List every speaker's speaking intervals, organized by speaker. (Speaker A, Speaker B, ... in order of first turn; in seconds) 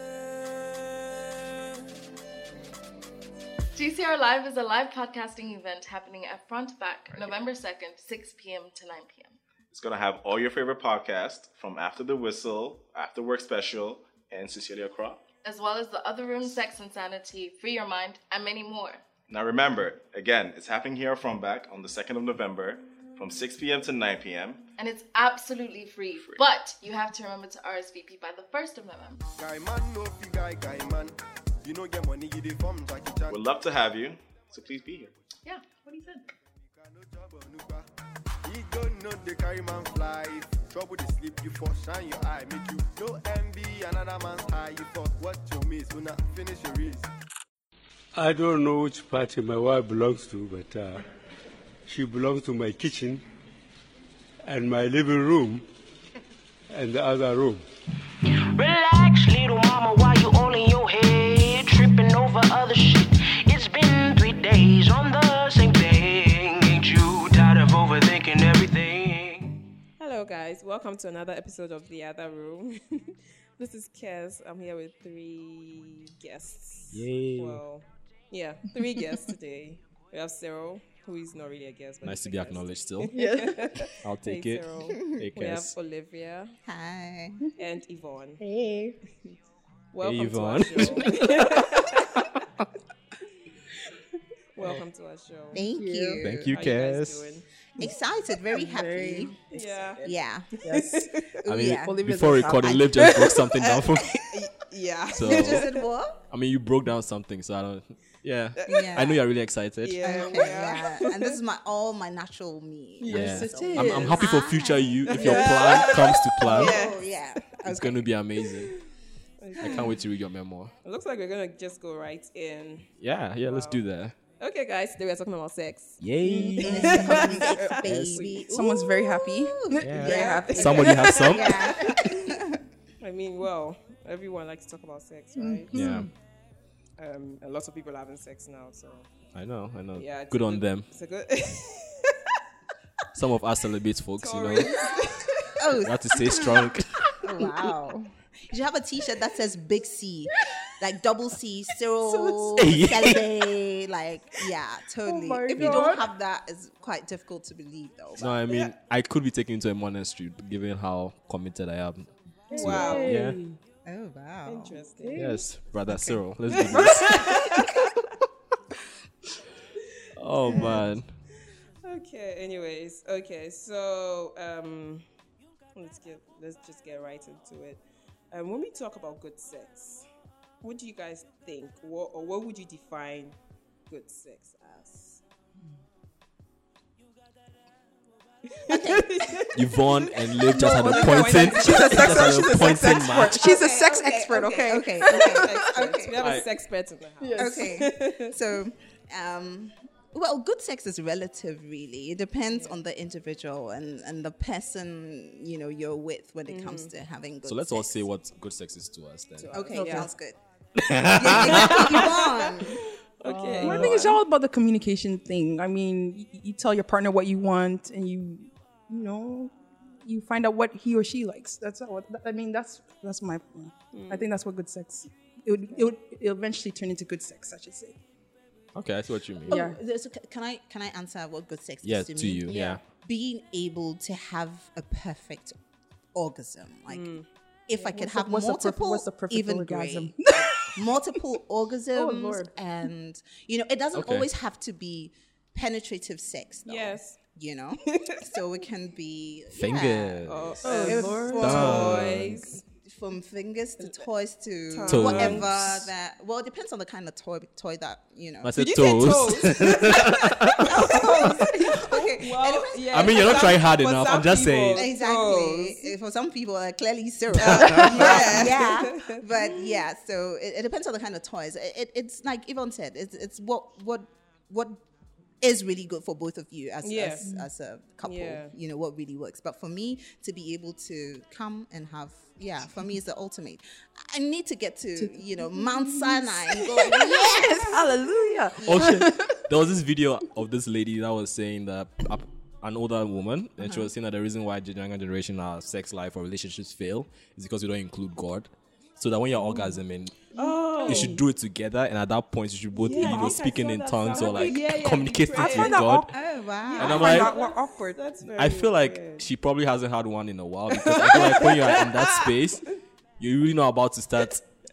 Speaker A: 3.8-9.4, 15.4-19.0, 24.8-29.2, 35.5-36.3
Speaker B: 9.7-15.2, 19.3-24.6, 33.3-35.1
Speaker C: 29.4-33.5, 36.6-37.9, 38.4-47.1
Speaker D: 48.1-51.0, 51.9-53.2, 54.5-55.6, 56.7-57.6
Speaker E: 58.5-69.6
Speaker F: 70.0-86.5, 87.6-88.4, 89.9-92.2, 94.5-95.6, 96.5-97.5, 99.5-100.1, 100.6-101.4, 103.6-105.8, 108.6-109.0, 109.8-111.3, 115.1-117.0, 119.4-119.9, 120.8-122.9, 123.5-123.8, 124.4-126.0, 126.9-127.8, 130.0-131.1, 133.0-135.7, 137.0-139.1, 139.9-142.2, 144.2-145.6, 162.6-163.1, 164.5-165.2, 166.5-167.7, 170.5-170.8, 171.8-175.1, 175.8-180.1, 180.6-183.4, 183.9-185.2, 188.5-189.9, 190.8-198.3, 202.5-202.8, 206.5-206.9, 209.4-210.1, 211.3-214.1, 223.9-224.3, 232.5-232.8, 236.9-237.3, 246.7-247.2, 247.9-248.2, 250.3-252.6, 254.7-255.7, 258.6-265.9, 267.4-269.2, 276.8-277.2, 278.1-278.5, 300.4-301.2, 302.8-305.8, 306.7-309.2, 310.8-312.3
Speaker G: 76.9-77.6, 82.0-83.1, 84.0-85.7, 90.0-92.4, 96.2-97.4, 101.5-104.4, 105.1-105.7, 106.3-110.2, 113.1-116.8, 117.7-118.7, 119.6-120.7, 123.0-124.2, 126.0-127.2, 127.8-128.2, 129.8-131.6, 135.7-136.1, 139.3-140.9, 143.1-144.7, 145.8-147.1, 152.4-153.4, 158.2-163.4, 165.2-167.4, 170.2-171.1, 189.5-193.5, 196.2-196.5, 207.5-209.6, 210.8-212.2, 213.4-214.2, 228.8-229.6, 231.8-232.8, 243.9-244.3, 249.6-252.4, 254.9-255.9, 258.4-261.1, 262.9-264.9, 267.4-268.5, 288.6-300.3, 300.8-306.1, 306.8-307.3, 308.3-314.4
Speaker H: 83.1-84.0, 88.4-89.0, 95.5-96.2, 98.5-101.1, 101.8-103.5, 113.0-114.2, 126.3-131.9, 135.4-136.1, 155.1-156.1, 162.5-163.6, 165.0-165.4, 166.7-167.4, 190.5-195.5, 197.2-197.7, 209.8-210.1, 213.2-228.0, 229.5-229.8, 237.8-240.8, 241.9-242.5, 250.6-251.8, 277.2-277.5, 285.0-289.4, 300.8-301.2, 302.9-303.5, 304.1-304.6, 305.4-306.1, 306.8-308.1
Speaker I: 86.7-87.4, 95.5-96.5, 97.8-99.4, 100.0-100.5, 101.5-102.0, 105.2-106.2, 108.7-109.2, 110.0-115.9, 116.5-118.1, 119.6-119.9, 126.3-130.7, 131.3-132.6, 144.6-144.9, 145.6-158.3, 163.8-164.8, 165.9-166.2, 188.7-189.4, 193.2-196.2, 197.4-208.1, 209.5-210.4, 210.9-212.9, 229.5-235.6, 236.1-237.1, 237.7-258.6, 260.2-263.5, 264.7-274.8, 275.4-287.9, 306.1-307.1